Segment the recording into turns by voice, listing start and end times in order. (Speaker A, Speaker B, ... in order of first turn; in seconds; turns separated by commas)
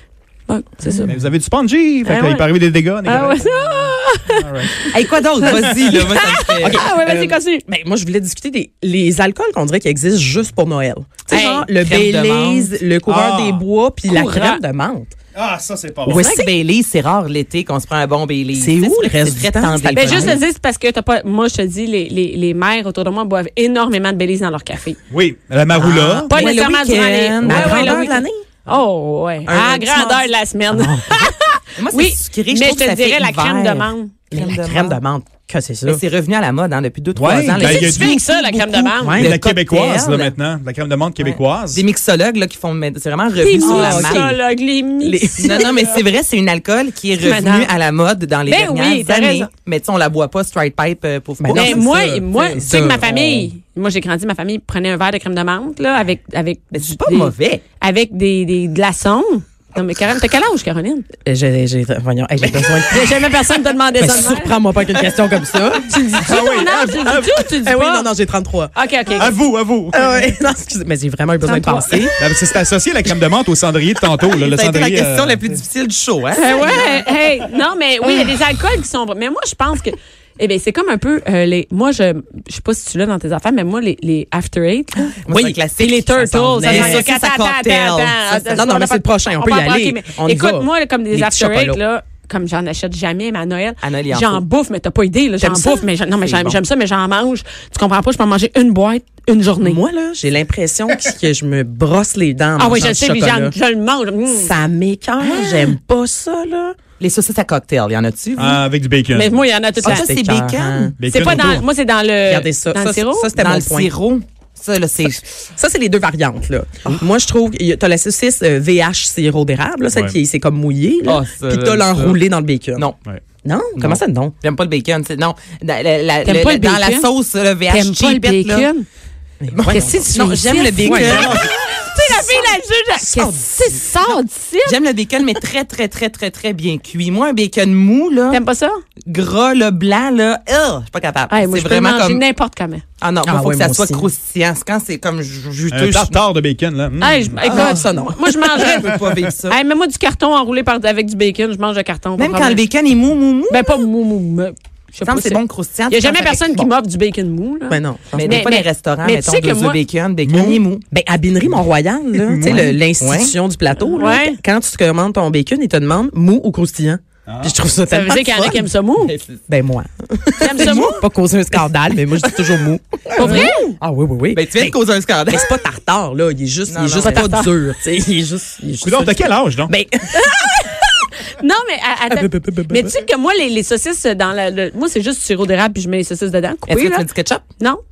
Speaker A: 0.5-1.1, Speaker B: 1.1-4.9, Speaker A: 2.0-2.5, Speaker A: 3.0-7.6, Speaker C: 4.9-6.9, Speaker B: 5.4-6.1, Speaker D: 6.6-15.1, Speaker A: 11.3-11.7, Speaker C: 11.3-12.8, Speaker B: 13.1-13.6, Speaker A: 14.1-14.6, Speaker B: 15.3-16.3, Speaker D: 16.1-16.5, Speaker C: 16.1-20.4, Speaker D: 18.5-20.4, Speaker A: 19.9-25.0, Speaker B: 25.1-26.4, Speaker C: 25.7-28.0, Speaker A: 26.3-34.1, Speaker D: 27.4-28.5, Speaker D: 29.4-31.1, Speaker C: 31.8-35.0, Speaker D: 34.3-36.0, Speaker C: 35.9-38.3, Speaker B: 37.2-41.8, Speaker A: 37.6-39.2, Speaker D: 39.0-39.4, Speaker C: 39.1-40.4, Speaker C: 41.2-44.4, Speaker A: 43.4-46.0, Speaker D: 43.6-44.4, Speaker D: 45.0-45.8, Speaker C: 45.4-51.9, Speaker A: 47.2-47.7, Speaker A: 48.5-49.5, Speaker D: 51.4-53.5, Speaker A: 51.5-61.0, Speaker C: 56.7-57.6, Speaker D: 61.2-63.3, Speaker C: 62.4-63.1, Speaker A: 62.9-64.6, Speaker D: 64.0-66.0, Speaker A: 65.8-68.1, Speaker B: 66.1-67.5, Speaker D: 67.6-68.7, Speaker A: 68.7-69.3, Speaker B: 69.2-70.3, Speaker D: 69.9-72.1, Speaker A: 71.4-72.1, Speaker B: 72.2-75.4, Speaker C: 74.2-77.2, Speaker A: 76.3-85.2, Speaker C: 85.2-88.2, Speaker D: 85.3-85.6, Speaker A: 85.8-99.8, Speaker D: 86.6-87.0, Speaker D: 88.3-91.8, Speaker C: 93.8-94.4, Speaker D: 95.4-95.9, Speaker C: 96.2-96.6, Speaker D: 99.6-103.5, Speaker A: 102.6-104.5, Speaker D: 104.3-106.8, Speaker C: 105.3-105.7, Speaker C: 107.0-108.6, Speaker B: 108.4-109.3, Speaker A: 109.1-110.1, Speaker C: 109.8-111.0, Speaker D: 109.8-111.0, Speaker B: 111.0-111.7, Speaker A: 111.1-113.3, Speaker D: 112.3-113.9, Speaker C: 113.3-115.2, Speaker D: 115.5-122.9, Speaker B: 119.9-120.2, Speaker C: 121.0-122.2, Speaker D: 123.4-124.4, Speaker C: 123.8-128.7, Speaker A: 126.2-127.1, Speaker A: 127.7-128.9, Speaker D: 129.4-130.0, Speaker C: 129.5-131.4, Speaker A: 129.7-134.8, Speaker D: 130.8-131.3, Speaker B: 131.0-131.5, Speaker D: 133.0-133.5, Speaker C: 134.1-138.4, Speaker A: 138.3-138.8, Speaker C: 139.0-142.2, Speaker A: 141.3-142.8, Speaker C: 143.0-146.2, Speaker D: 143.2-144.1, Speaker B: 145.7-147.5, Speaker A: 147.0-152.6, Speaker C: 147.4-149.6, Speaker D: 147.5-148.2, Speaker C: 152.2-153.9, Speaker A: 153.5-159.8, Speaker C: 155.0-156.7, Speaker D: 157.7-158.4, Speaker C: 158.1-160.8, Speaker B: 160.3-160.7, Speaker D: 160.9-168.7, Speaker B: 162.2-162.8, Speaker C: 162.4-163.3, Speaker A: 163.9-164.4, Speaker B: 167.3-167.5, Speaker A: 167.9-169.1, Speaker C: 169.0-169.4, Speaker D: 169.5-180.8, Speaker A: 170.4-171.0, Speaker C: 170.6-171.0, Speaker C: 172.2-172.6, Speaker A: 173.2-173.8, Speaker C: 173.2-173.5, Speaker C: 174.3-175.6, Speaker C: 176.7-177.3, Speaker A: 177.0-177.5, Speaker B: 178.8-179.7, Speaker A: 180.2-187.1, Speaker D: 182.1-183.0, Speaker C: 186.7-187.4